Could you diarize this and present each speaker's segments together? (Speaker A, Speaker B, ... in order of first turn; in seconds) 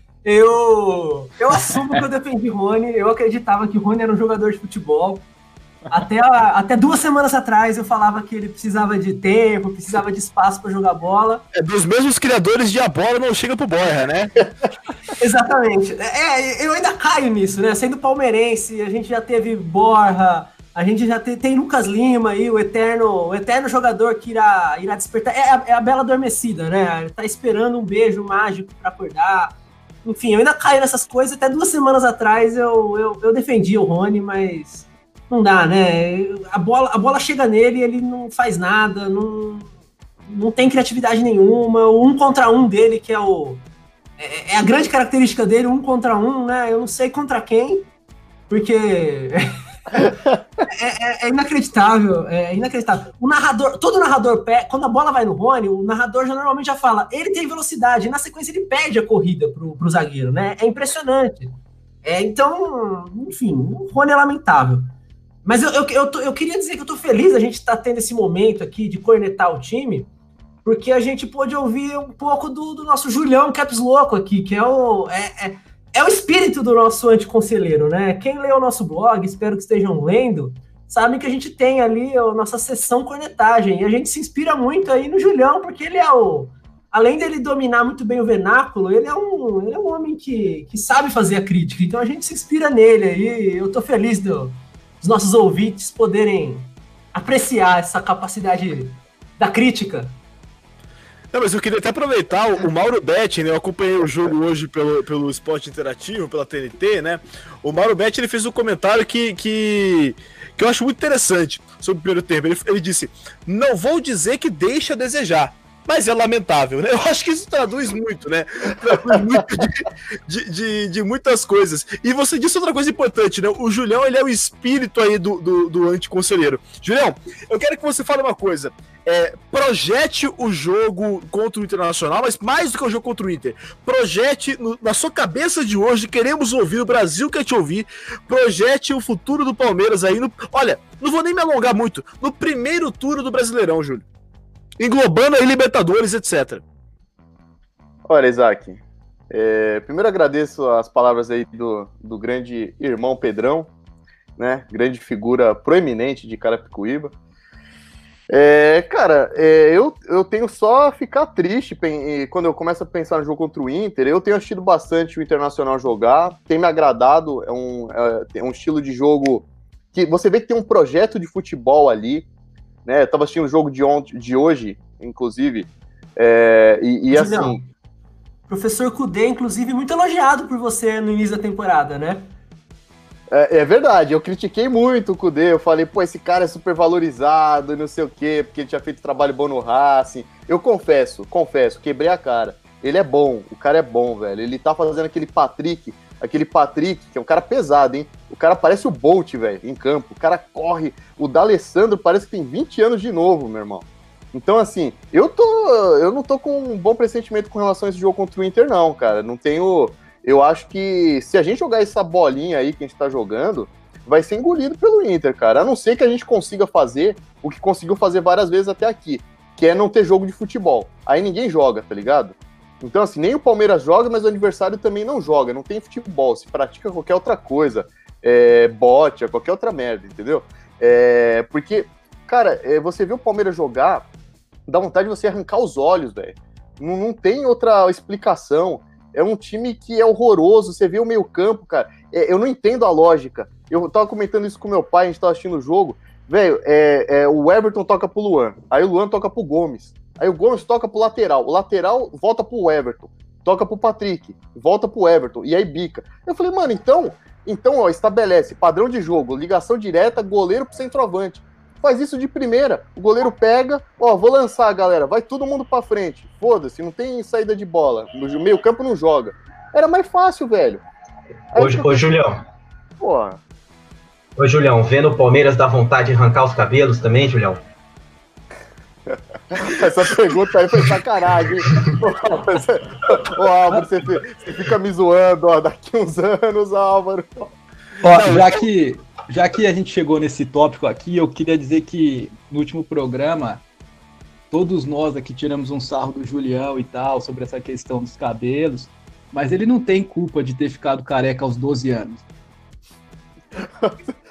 Speaker A: 0.2-5.2, 5.9-11.4, 15.2-39.7, 40.2-43.6, 44.2-47.9, 48.5-50.1, 50.6-64.9, 65.4-70.1, 70.6-100.2, 177.1-177.6, 178.5-182.3
Speaker B: 11.5-14.5, 101.3-144.0, 144.8-146.6, 288.0-288.6
Speaker C: 50.0-50.4, 148.1-153.7, 154.4-157.1, 158.3-172.3, 172.8-177.6, 183.3-234.1, 234.7-270.8, 271.5-272.0, 273.0-273.4, 279.1-287.5, 303.6-304.0
Speaker D: 271.5-272.4, 274.4-277.6
Speaker E: 288.0-293.6, 294.5-302.2